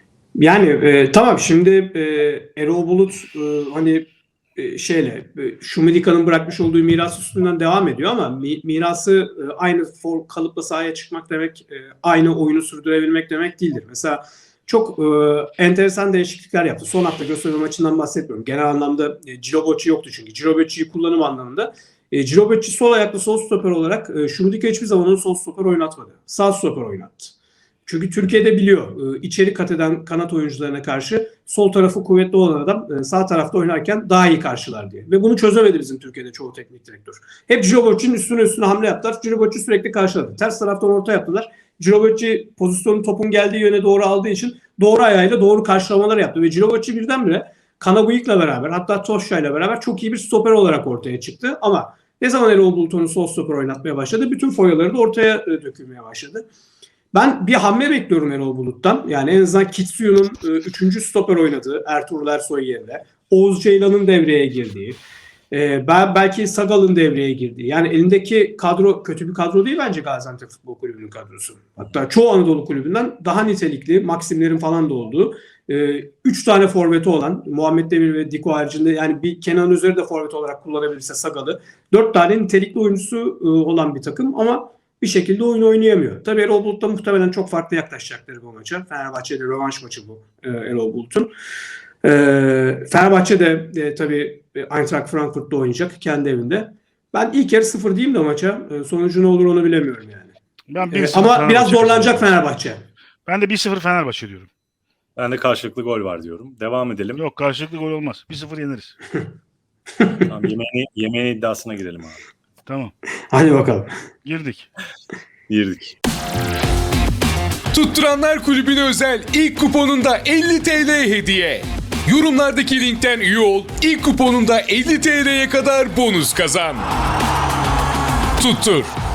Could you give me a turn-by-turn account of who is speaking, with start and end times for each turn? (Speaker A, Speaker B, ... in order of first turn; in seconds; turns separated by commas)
Speaker A: 0.3-27.3, Speaker A: 27.9-56.5, Speaker A: 57.1-65.0, Speaker A: 65.5-91.3, Speaker A: 92.0-100.3, Speaker B: 100.7-102.3, Speaker A: 100.9-102.8, Speaker B: 103.2-104.5, Speaker C: 105.2-107.2, Speaker B: 107.2-109.0, Speaker C: 110.3-112.2, Speaker B: 112.7-112.9, Speaker A: 113.3-113.9, Speaker B: 114.2-114.7, Speaker C: 115.5-116.0, Speaker D: 117.7-126.8, Speaker D: 128.4-128.9